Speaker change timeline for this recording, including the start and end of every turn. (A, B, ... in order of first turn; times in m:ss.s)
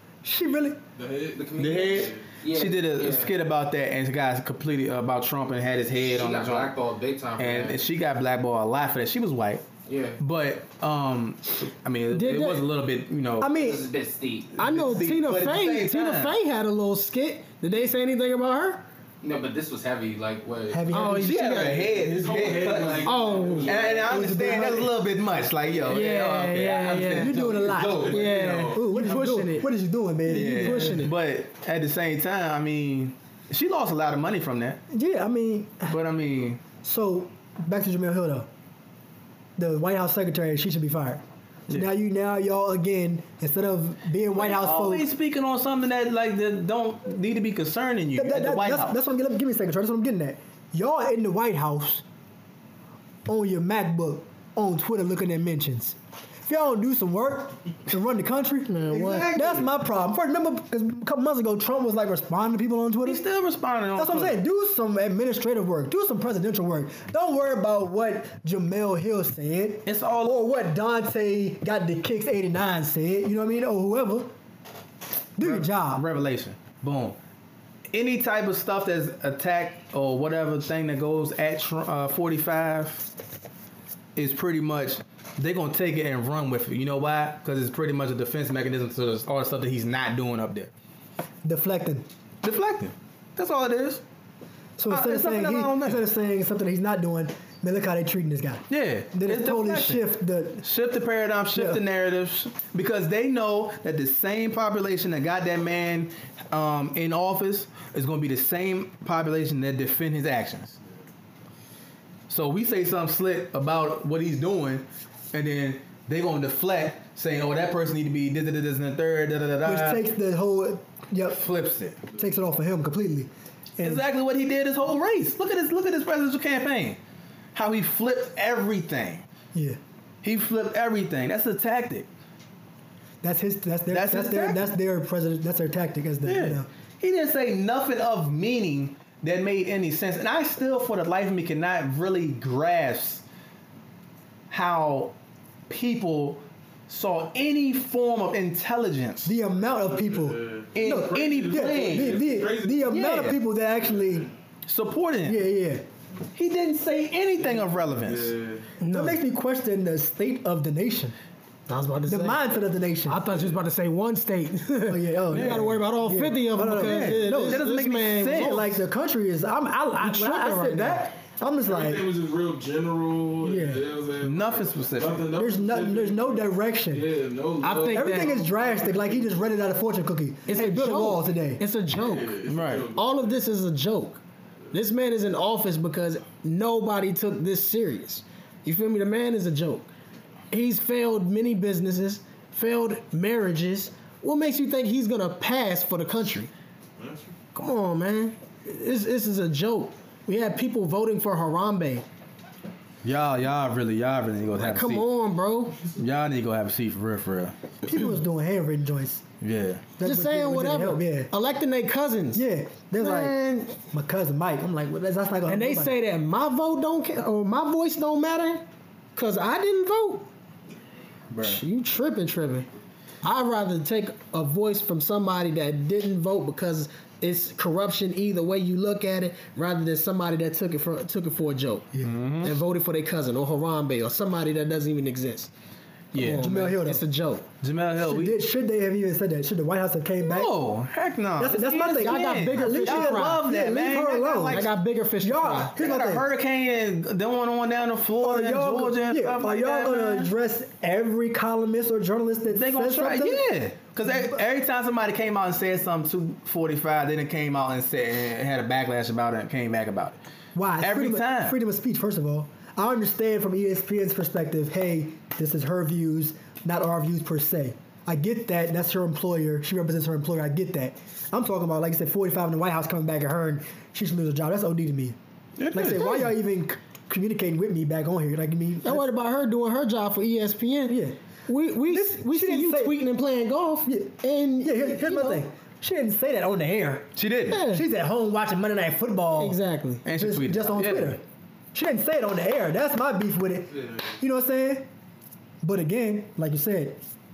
0:00.2-0:00.8 A
0:01.0-0:02.3 B
0:01.3-0:03.3 C
0:01.6-0:06.7 D
0:06.0-0:07.8 C
0:07.4-0:09.6 D
0:09.9-0:10.2 C
0:10.2-0:13.5 D
0:12.1-0:12.6 E
0:13.4-0:13.8 A
0:13.4-0:14.5 C
0:14.6-0:18.8 E
0:14.6-0:16.4 D
0:19.2-0:21.0 C
0:20.7-0:21.4 A
0:20.9-0:21.9 E
0:21.2-0:28.6 D
0:21.7-0:24.4 B
0:23.0-0:23.8 E
0:24.1-0:24.9 A
0:25.8-0:27.4 E
0:27.1-0:31.1 A
0:27.8-0:29.2 B
0:28.1-0:29.7 E
0:30.3-0:31.1 E
0:30.3-0:34.8 D
0:34.9-0:36.0 A
0:35.9-0:36.6 D
0:36.8-0:38.5 A
0:39.6-0:45.0 A
0:44.3-0:49.0 D
0:48.2-0:52.0 A
0:53.3-1:03.2 A
0:58.7-0:59.4 E
0:58.9-0:59.7 D
1:03.0-1:04.4 D
1:04.0-1:14.3 A
1:09.9-1:10.4 D
1:15.4-1:16.0 A
1:15.4-1:17.2 D
1:17.9-1:23.1 D
1:24.2-1:30.7 D
1:31.4-1:32.0 A
1:32.4-1:34.0 D
1:34.8-1:40.6 A
1:34.9-1:36.0 D
1:38.7-1:50.8 D
1:41.5-1:41.8 A
1:52.3-2:00.0 D
1:59.6-2:01.4 A
2:01.3-2:02.0 D
2:02.1-2:04.0 A
2:03.8-2:07.0 D
2:07.5-2:09.3 D
2:10.2-2:12.1 D
2:13.2-2:16.7 A
2:13.9-2:14.7 D
2:16.2-2:23.2 D
2:24.5-2:25.1 D
2:25.7-2:29.4 D
2:29.2-2:34.3 A
2:29.7-2:32.9 B
2:30.7-2:33.4 D
2:34.0-2:34.3 B
2:34.6-2:35.4 D
2:35.2-2:35.8 A
2:36.4-2:38.4 D
2:37.4-2:38.6 B
2:38.8-2:39.2 E
2:38.9-2:41.1 A
2:41.7-2:42.4 E
2:42.0-2:43.2 A
2:43.0-2:48.7 E
2:43.3-2:43.6 B
2:44.8-2:47.7 A
2:45.3-2:45.8 D
2:46.7-2:48.8 D
2:48.2-2:52.1 A
2:50.0-2:51.1 E
2:51.6-2:59.3 B
2:53.4-2:53.9 A
2:54.2-2:55.3 D
2:55.3-2:57.1 A
2:57.6-2:58.4 E
2:57.9-3:01.6 A
3:00.5-3:04.2 E
3:01.9-3:03.4 B
3:02.5-3:02.9 D
3:04.7-3:09.9 E
3:10.5-3:16.5 E
3:17.0-3:17.4 B
3:17.5-3:22.0 E
3:23.0-3:25.1 D
3:24.6-3:25.9 E
3:25.9-3:27.6 D
3:27.8-3:29.2 A
3:29.4-3:29.9 D
3:30.0-3:31.3 A
3:30.0-3:32.4 E
3:32.3-3:36.0 A
3:33.0-3:33.8 E
3:35.5-3:38.6 E
3:39.1-3:40.3 E
3:41.3-3:41.6 D
3:41.4-3:42.7 E
3:43.2-3:55.5 E
3:52.0-3:52.5 D
3:56.1-3:56.5 D
3:56.1-3:57.5 E
3:56.3-3:57.0 A
3:57.6-3:58.4 D
3:58.0-4:00.5 A
4:00.2-4:04.7 D
4:01.4-4:04.7 A
4:01.9-4:03.4 E
4:04.5-4:05.7 E
4:05.2-4:06.2 A
4:05.8-4:10.3 D
4:08.2-4:13.4 A
4:12.5-4:20.2 D
4:14.0-4:14.4 A
4:20.5-4:35.2 A
4:20.8-4:21.6 D
4:35.6-4:36.4 D
4:35.7-4:39.1 A
4:38.8-4:45.4 E
4:40.9-4:41.2 A
4:41.9-4:43.0 A
4:43.8-4:47.1 A
4:47.1-4:47.6 D
4:47.5-4:47.9 E
4:47.7-4:49.6 A
4:49.4-4:50.0 E
4:50.0-4:51.2 D
4:50.2-4:51.2 A
4:51.7-4:54.9 A
4:55.6-4:57.0 A